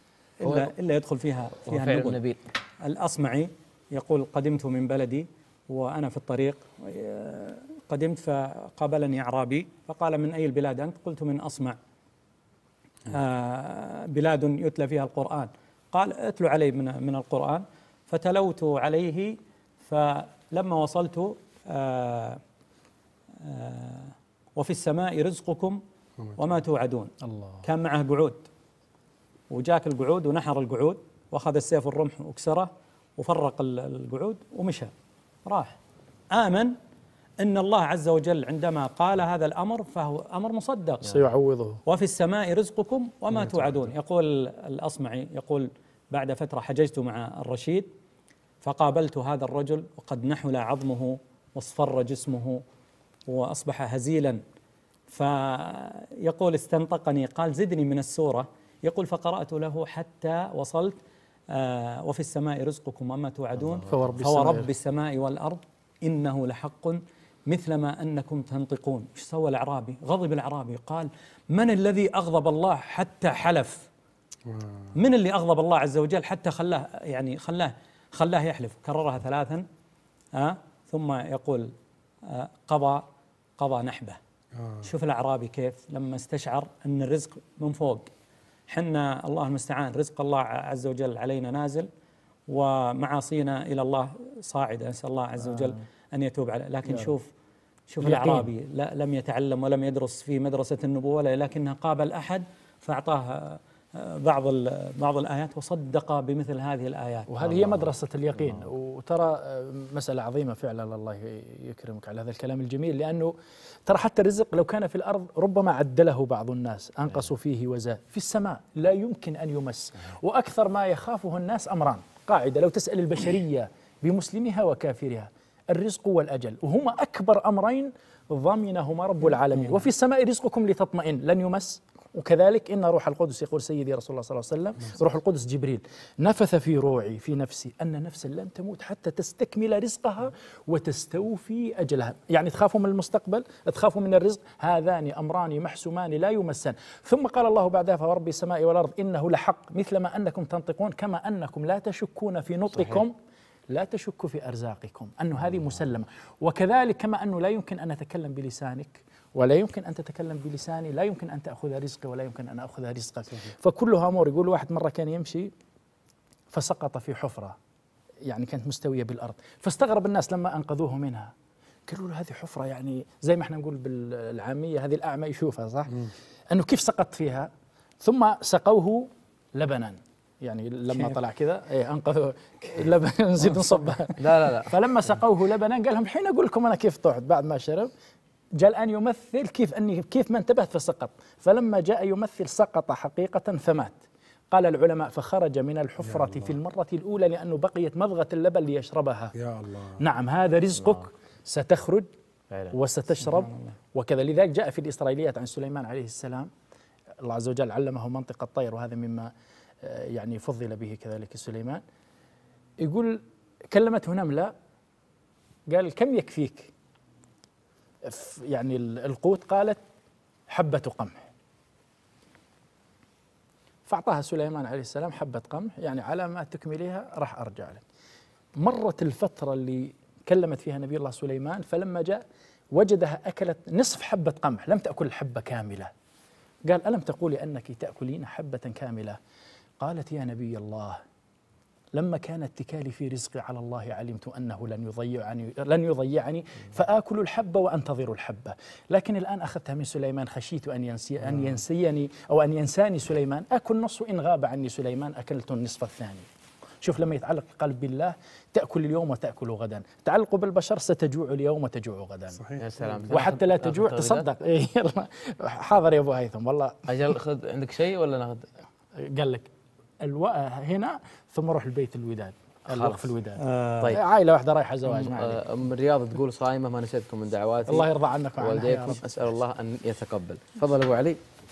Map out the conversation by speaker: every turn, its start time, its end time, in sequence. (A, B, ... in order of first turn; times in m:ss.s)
0:00.4-0:02.2 A
0:00.4-0:00.7 B
0:01.6-0:02.4 B
0:02.8-0:11.8 A
0:13.0-0:22.4 A
0:23.4-0:27.1 A
0:27.2-0:27.6 C
0:27.6-0:28.5 A
0:29.5-0:34.9 A
0:35.4-0:35.8 A
0:36.3-0:36.7 A
0:37.4-0:41.1 A
0:41.1-0:41.8 C
0:41.8-0:47.9 A
0:48.6-0:52.6 A
0:53.3-0:54.4 A
0:55.1-1:01.0 A
1:01.5-1:13.9 A
1:03.7-1:04.2 B
1:03.9-1:04.7 C
1:14.5-1:14.8 D
1:14.9-1:19.6 A
1:20.3-1:21.7 A
1:22.2-1:23.0 A
1:23.6-1:24.2 A
1:24.5-1:24.8 D
1:24.8-1:28.1 A
1:28.7-1:31.9 A
1:32.5-1:37.3 A
1:35.4-1:35.8 C
1:37.9-1:47.3 A
1:38.0-1:38.5 C
1:47.3-1:53.3 C
1:47.4-1:47.8 B
1:53.9-2:33.1 C
2:33.7-2:45.5 C
2:46.5-2:47.6 C
2:48.2-2:51.3 C
2:51.9-2:57.5 C
2:58.0-3:07.9 C
3:04.2-3:04.7 B
3:08.6-3:14.0 C
3:14.5-3:19.3 C
3:16.0-3:16.5 D
3:19.3-3:20.0 D
3:20.0-3:22.1 C
3:22.7-3:26.5 C
3:23.4-3:23.7 A
3:27.2-3:29.3 C
3:29.8-3:31.8 C
3:32.8-3:34.5 C
3:35.7-3:36.7 C
3:38.0-3:39.8 C
3:40.5-3:41.2 C
3:43.8-3:47.8 C
3:48.6-3:55.9 C
3:56.6-3:59.2 C
3:59.8-4:01.0 C
4:01.9-4:16.3 C
4:16.8-4:22.4 C
4:22.3-4:22.6 D
4:22.6-4:24.3 B
4:23.1-4:27.1 C
4:26.9-4:28.5 B
4:29.0-4:29.5 C
4:30.0-4:35.4 C
4:32.7-4:33.1 B
4:33.4-4:34.0 A
4:34.8-4:41.2 B
4:37.7-4:39.0 C